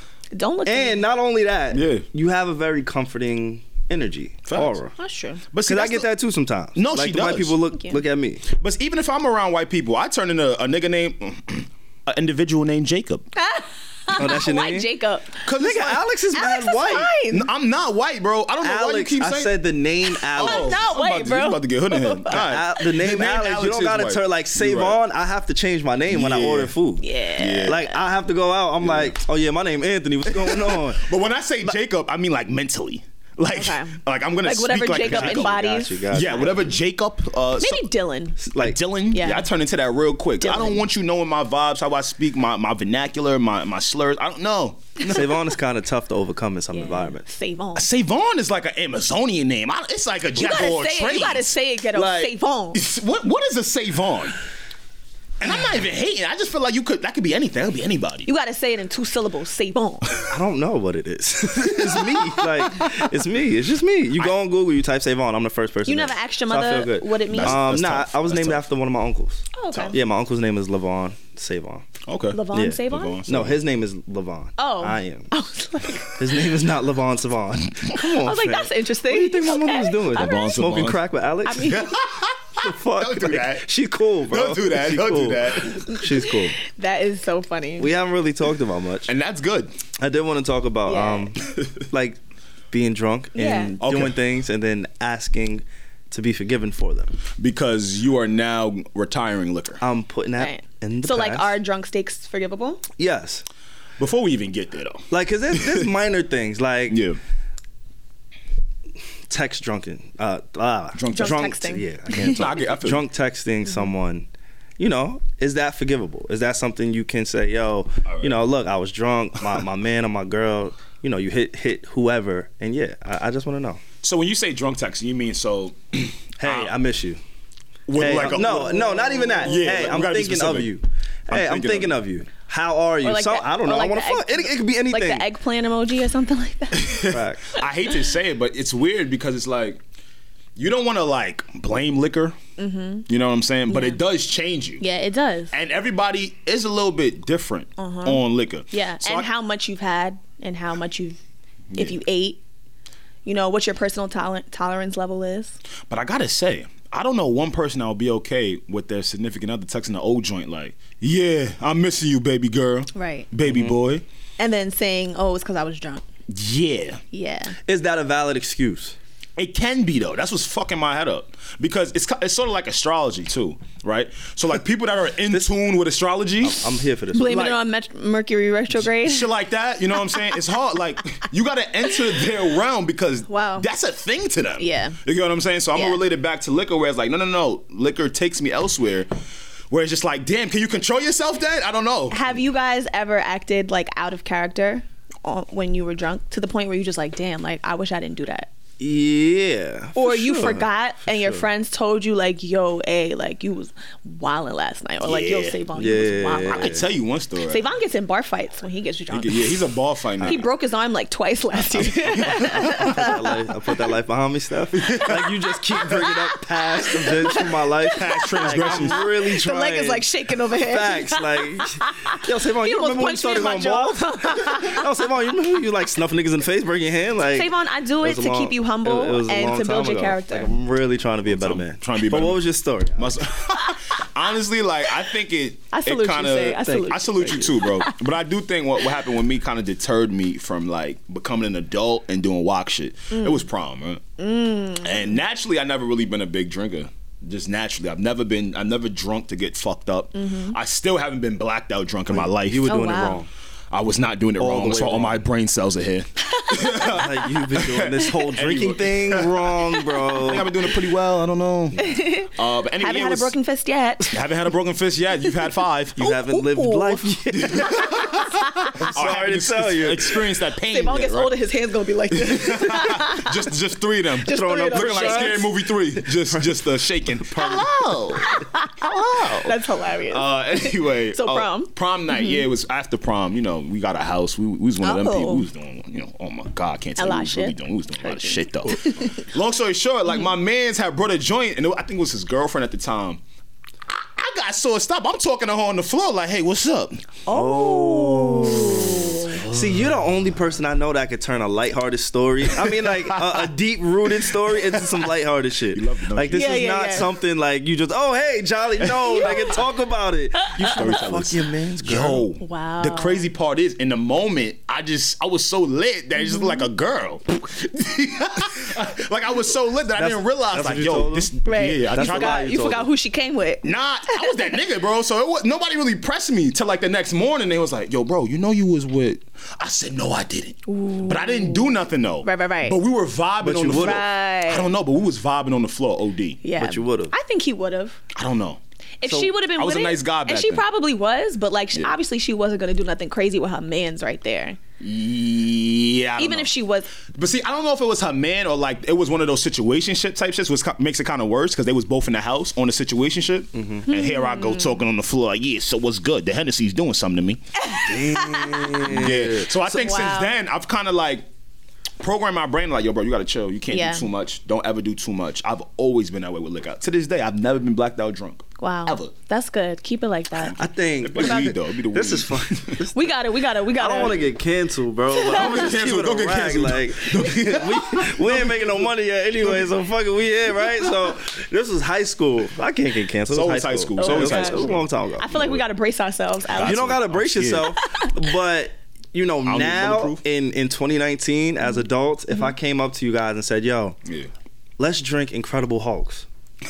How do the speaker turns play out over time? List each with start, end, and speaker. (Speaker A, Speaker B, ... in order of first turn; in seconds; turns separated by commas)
Speaker A: 0.3-1.1, Speaker B: 0.7-4.9, Speaker C: 1.7-2.0, Speaker C: 4.5-4.8, Speaker A: 5.0-5.4, Speaker C: 5.5-6.1, Speaker B: 5.6-8.4, Speaker C: 6.7-7.6, Speaker A: 7.7-8.0, Speaker C: 8.5-13.2, Speaker A: 13.3-15.4, Speaker B: 14.1-14.9, Speaker C: 15.4-16.0, Speaker B: 15.6-17.1, Speaker A: 16.3-17.5, Speaker C: 17.3-19.5, Speaker B: 18.6-20.8, Speaker A: 20.3-22.8, Speaker C: 20.4-25.0, Speaker B: 22.3-27.0, Speaker C: 26.1-26.7, Speaker A: 27.0-28.0, Speaker C: 27.4-27.8, Speaker B: 27.6-31.1, Speaker C: 28.8-29.1, Speaker C: 30.3-35.5, Speaker A: 33.5-36.5, Speaker B: 35.0-36.7, Speaker C: 36.1-37.9, Speaker A: 37.6-38.4, Speaker B: 38.4-38.8, Speaker C: 38.6-44.9, Speaker A: 39.1-39.5, Speaker A: 40.4-40.8, Speaker B: 45.0-47.2, Speaker A: 46.7-47.9, Speaker C: 47.7-54.3, Speaker A: 50.4-52.8, Speaker C: 55.4-58.3, Speaker A: 58.2-60.1, Speaker B: 60.3-71.9, Speaker C: 61.6-62.9, Speaker A: 65.8-67.8, Speaker C: 67.3-68.6, Speaker A: 69.5-70.0, Speaker C: 72.0-73.6, Speaker A: 72.3-73.2, Speaker B: 72.5-75.3, Speaker A: 74.6-76.2, Speaker B: 76.2-81.8, Speaker A: 77.9-80.7, Speaker C: 80.1-81.0, Speaker A: 81.5-81.9, Speaker C: 81.6-83.7, Speaker B: 82.6-86.5, Speaker C: 84.2-85.8, Speaker A: 85.9-87.9, Speaker B: 87.8-89.1, Speaker C: 89.1-89.7, Speaker B: 90.0-92.2, Speaker A: 90.9-91.3, Speaker B: 92.7-97.2, Speaker A: 93.3-93.8, Speaker C: 93.8-94.2, Speaker C: 97.4-99.8, Speaker B: 99.8-101.5, Speaker A: 100.4-102.8, Speaker B: 103.0-103.4, Speaker C: 104.0-105.9, Speaker B: 105.1-107.0, Speaker C: 106.9-107.2, Speaker B: 109.3-114.3, Speaker C: 110.9-111.4, Speaker A: 111.1-112.5, Speaker C: 112.1-113.0, Speaker B: 114.8-123.8, Speaker C: 118.0-118.4, Speaker C: 124.0-126.8, Speaker B: 126.4-127.2, Speaker C: 127.9-128.8, Speaker B: 128.0-135.2, Speaker A: 128.1-129.9, Speaker C: 129.4-130.7, Speaker C: 131.3-132.0, Speaker A: 133.0-137.1, Speaker C: 136.7-139.8, Speaker B: 137.0-137.5, Speaker C: 140.6-142.4, Speaker A: 142.6-143.1, Speaker C: 143.1-144.8, Speaker A: 143.7-144.0, Speaker A: 144.8-145.5, Speaker C: 145.5-149.3, Speaker A: 147.8-151.2, Speaker C: 151.7-152.0, Speaker A: 151.8-152.4, Speaker A: 153.2-155.5, Speaker C: 155.9-164.0, Speaker A: 162.9-163.3, Speaker A: 164.4-166.0, Speaker C: 166.3-167.0, Speaker A: 167.1-167.5, Speaker B: 167.7-168.9, Speaker C: 169.4-176.7, Speaker B: 176.4-177.6, Speaker A: 177.1-179.3, Speaker C: 178.8-189.1, Speaker A: 183.3-183.7, Speaker A: 184.6-185.0, Speaker A: 185.7-186.0, Speaker C: 189.7-192.2, Speaker A: 192.1-198.5, Speaker B: 198.8-201.4, Speaker A: 199.9-206.8, Speaker C: 205.0-205.6, Speaker B: 205.7-206.8, Speaker C: 206.4-207.7, Speaker A: 207.4-209.6, Speaker C: 209.1-210.5, Speaker A: 210.2-213.4, Speaker C: 211.7-213.1, Speaker B: 212.4-220.0, Speaker C: 214.7-215.3, Speaker A: 215.7-224.9, Speaker C: 217.9-219.1, Speaker B: 220.6-233.1, Speaker A: 227.3-230.5, Speaker C: 231.2-232.4, Speaker C: 233.0-244.0, Speaker A: 235.7-238.0, Speaker B: 236.6-237.5, Speaker A: 243.1-243.4, Speaker A: 244.2-245.1, Speaker C: 244.8-252.8, Speaker A: 250.1-250.6, Speaker B: 252.1-253.3, Speaker A: 252.7-253.2, Speaker C: 253.7-259.5, Speaker B: 254.4-255.2, Speaker A: 256.3-257.0, Speaker B: 256.8-260.5, Speaker C: 260.1-263.3, Speaker A: 261.8-264.2, Speaker C: 264.1-266.1, Speaker B: 266.0-268.2, Speaker A: 266.0-267.1, Speaker C: 267.3-271.3, Speaker A: 268.4-268.7, Speaker B: 268.8-270.2, Speaker A: 270.6-273.4, Speaker C: 272.1-279.6, Speaker A: 274.2-275.5, Speaker B: 274.3-276.6, Speaker B: 277.1-277.7, Speaker A: 278.2-278.8, Speaker A: 279.4-282.4, Speaker C: 280.1-293.2, Speaker A: 284.8-285.5, Speaker A: 287.0-289.2, Speaker C: 293.9-297.1, Speaker A: 297.2-299.4, Speaker B: 297.3-312.2, Speaker C: 299.3-300.0, Speaker C: 302.5-303.5, Speaker C: 304.1-305.1, Speaker C: 305.7-306.8, Speaker A: 306.3-307.1, Speaker C: 308.8-309.5, Speaker A: 309.0-309.6, Speaker A: 310.4-310.8, Speaker C: 310.6-322.4, Speaker A: 312.4-313.3, Speaker A: 316.2-316.7, Speaker B: 319.9-321.3, Speaker A: 321.4-324.5, Speaker B: 321.9-322.9, Speaker C: 323.6-336.4, Speaker A: 330.7-332.8, Speaker B: 333.4-334.1, Speaker A: 333.7-334.7, Speaker A: 336.4-338.0, Speaker B: 336.6-337.1, Speaker C: 338.1-338.6, Speaker A: 339.0-344.6, Speaker C: 339.6-340.6, Speaker C: 344.8-346.5, Speaker A: 346.2-346.9, Speaker C: 347.1-357.4, Speaker B: 353.5-353.9, Speaker A: 353.9-354.8, Speaker A: 357.6-358.9, Speaker B: 357.8-359.5, Speaker C: 358.9-361.2, Speaker A: 359.7-360.3, Speaker C: 362.0-369.1, Speaker A: 363.7-364.1, Speaker A: 368.6-370.6, Speaker C: 370.3-372.8, Speaker B: 370.6-373.1, Speaker A: 372.9-374.3, Speaker B: 373.8-385.6, Speaker C: 375.2-379.7, Speaker A: 375.2-375.6, Speaker C: 383.3-384.9, Speaker A: 384.0-387.0, Speaker C: 386.5-387.7, Speaker B: 386.6-394.0, Speaker A: 387.6-388.1, Speaker C: 389.4-390.2, Speaker B: 394.8-396.3